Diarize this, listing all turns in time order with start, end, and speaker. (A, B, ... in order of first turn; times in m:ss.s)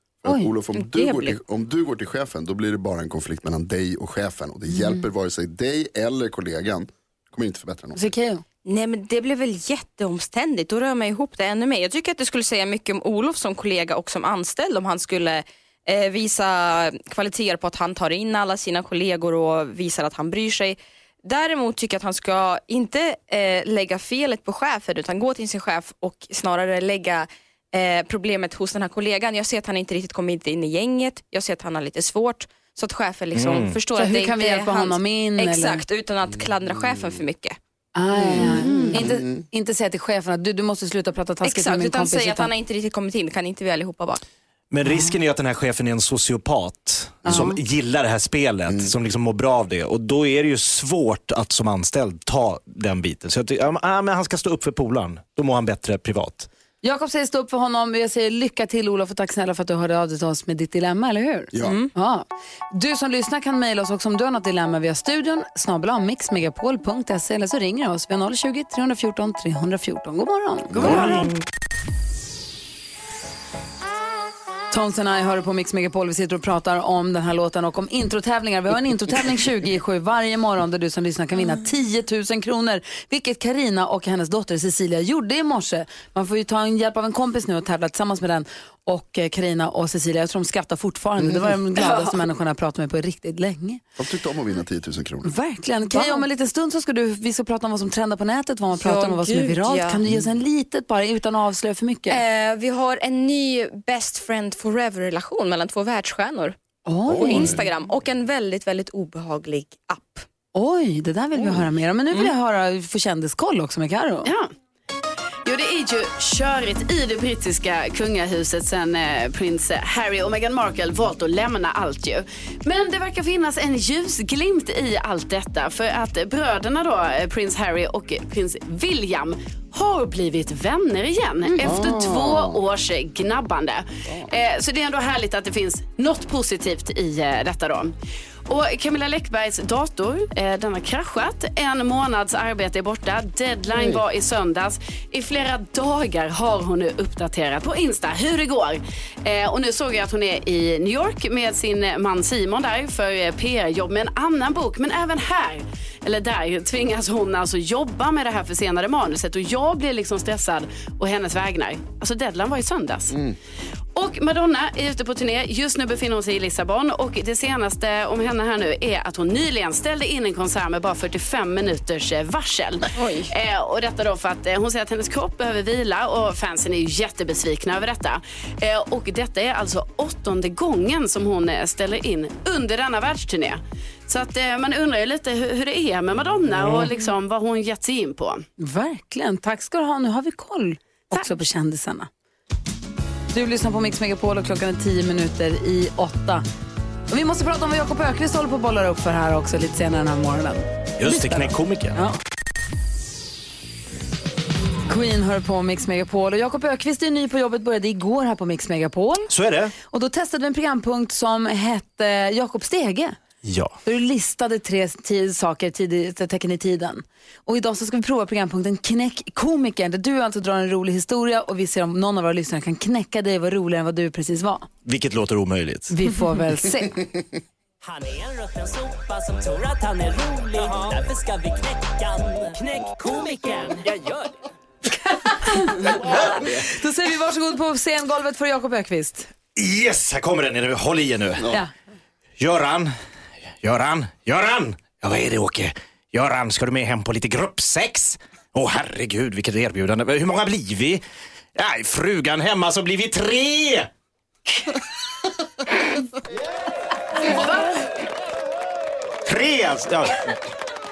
0:00.2-0:08.1 A
0:00.3-0:00.5 B
0:00.7-0:01.4 C
0:08.0-0:08.4 B
0:08.7-0:37.6 C
0:33.4-0:33.8 D
0:33.9-0:35.8 B
0:38.0-0:42.5 B
0:38.2-0:39.4 A
0:38.4-0:39.1 C
0:41.4-0:44.2 C
0:44.7-0:56.5 D
0:44.8-0:45.1 B
0:47.2-0:47.6 B
0:56.8-1:11.3 B
1:01.5-1:01.8 A
1:01.6-1:01.9 C
1:10.7-1:11.3 A
1:14.7-1:33.8 B
1:31.2-1:31.5 A
1:34.0-1:35.3 A
1:35.2-1:42.2 B
1:35.9-1:36.3 C
1:38.8-1:40.0 C
1:42.1-1:46.6 C
1:46.9-1:47.6 B
1:47.1-1:47.7 A
1:47.1-1:50.3 C
1:50.6-1:54.3 B
1:54.2-1:54.5 E
1:55.4-2:17.9 E
2:11.5-2:11.9 B
2:11.6-2:12.6 A
2:18.5-2:43.2 E
2:23.8-2:24.0 A
2:43.1-2:43.4 A
2:44.0-3:08.5 E
2:52.9-2:53.3 C
3:08.6-3:12.1 B
3:13.3-3:16.4 B
3:17.1-3:22.2 B
3:21.0-3:22.0 D
3:24.9-3:29.3 B
3:29.3-3:29.7 D
3:29.8-3:33.2 B
3:33.4-3:33.8 D
3:33.8-3:44.7 B
3:44.8-3:45.9 D
3:45.9-3:47.0 B
3:47.8-3:54.4 F
3:55.1-3:59.3 B
3:56.0-3:56.5 D
3:59.6-4:01.5 D
4:02.4-4:02.9 D
4:03.6-4:11.0 D
4:11.6-4:13.9 D
4:19.3-4:20.2 D